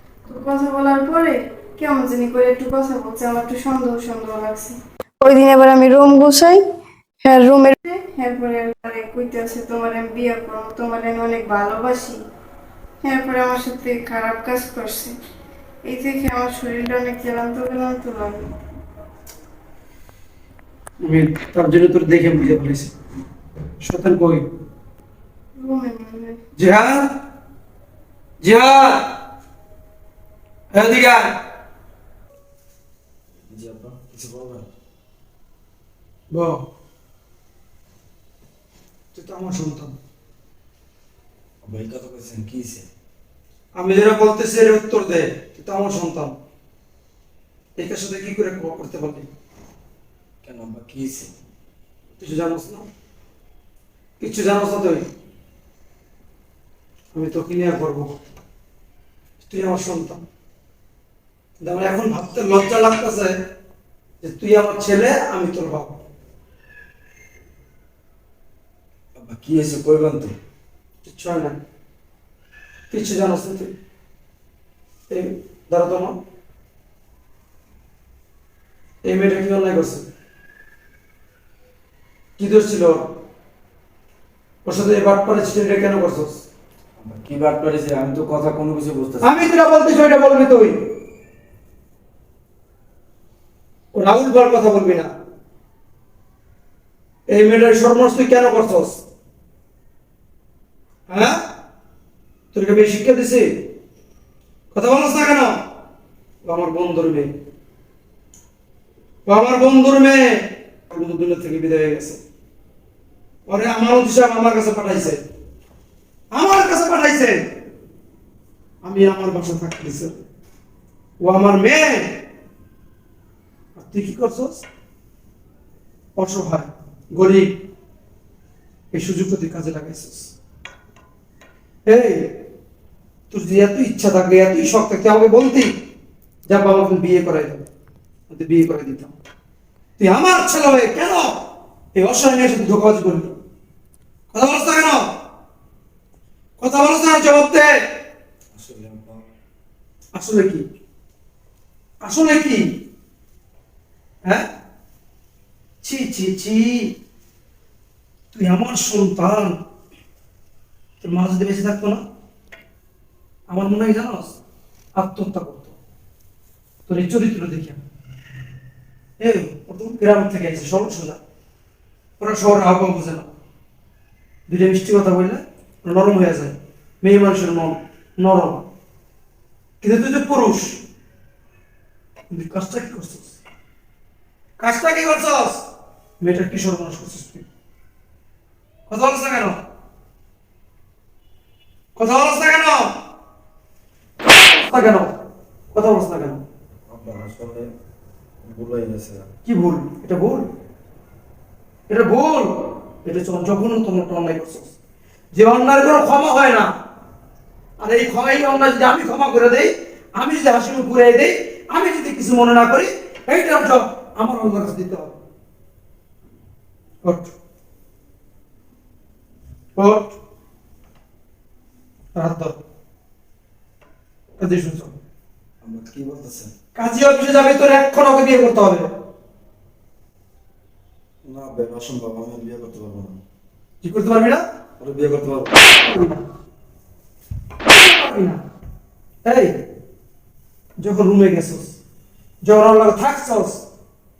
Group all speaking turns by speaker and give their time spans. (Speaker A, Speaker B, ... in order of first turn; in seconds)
Speaker A: 0.2-6.6, 7.2-12.2, 13.0-15.1, 15.8-18.5, 25.6-26.4
Speaker B: 21.0-22.9, 23.8-24.5, 26.6-27.1, 28.4-29.2, 30.7-31.4, 36.3-36.6, 39.1-40.0, 43.7-46.4, 47.8-49.3, 52.2-52.9, 54.2-55.1, 57.1-58.1, 59.4-60.2, 61.6-63.4, 64.2-66.0, 71.0-71.6, 72.9-73.7, 75.1-76.2, 79.0-80.0, 82.4-83.1, 84.6-86.4, 89.2-90.9, 93.9-95.1, 97.3-99.0, 101.1-101.4, 102.5-103.7, 104.7-105.5, 106.4-107.3, 109.3-112.2, 113.5-115.2, 116.3-117.5, 118.8-120.2, 121.2-122.2, 123.8-124.7, 126.2-127.6, 128.9-130.3, 131.8-132.3, 133.3-135.7, 136.5-137.7, 138.3-139.1, 140.0-143.3, 144.3-145.1, 146.6-147.7, 150.1-150.6, 152.0-152.8, 155.8-157.0, 158.3-159.6, 161.0-162.0, 163.5-164.4, 164.9-165.8, 166.9-167.8, 169.2-171.2, 172.2-173.3, 174.5-178.6, 179.8-180.8, 182.3-183.4, 184.6-185.6, 186.2-187.4, 188.9-189.6, 191.9-192.9, 194.2-195.1, 195.7-196.4, 199.4-200.4, 201.9-204.7, 205.3-206.7, 207.8-215.2, 217.0-217.3, 219.8-220.1, 222.1-222.6, 224.4-225.0, 226.7-228.9, 233.8-234.4, 235.5-236.2, 237.7-238.4, 239.2-239.6, 240.8-241.8, 242.4-243.6
Speaker C: 33.5-34.7, 41.6-42.9, 50.4-51.3, 69.2-70.3, 87.0-89.5, 148.5-149.2, 196.9-197.7, 198.4-199.3, 225.6-226.5, 231.2-233.2, 234.8-235.5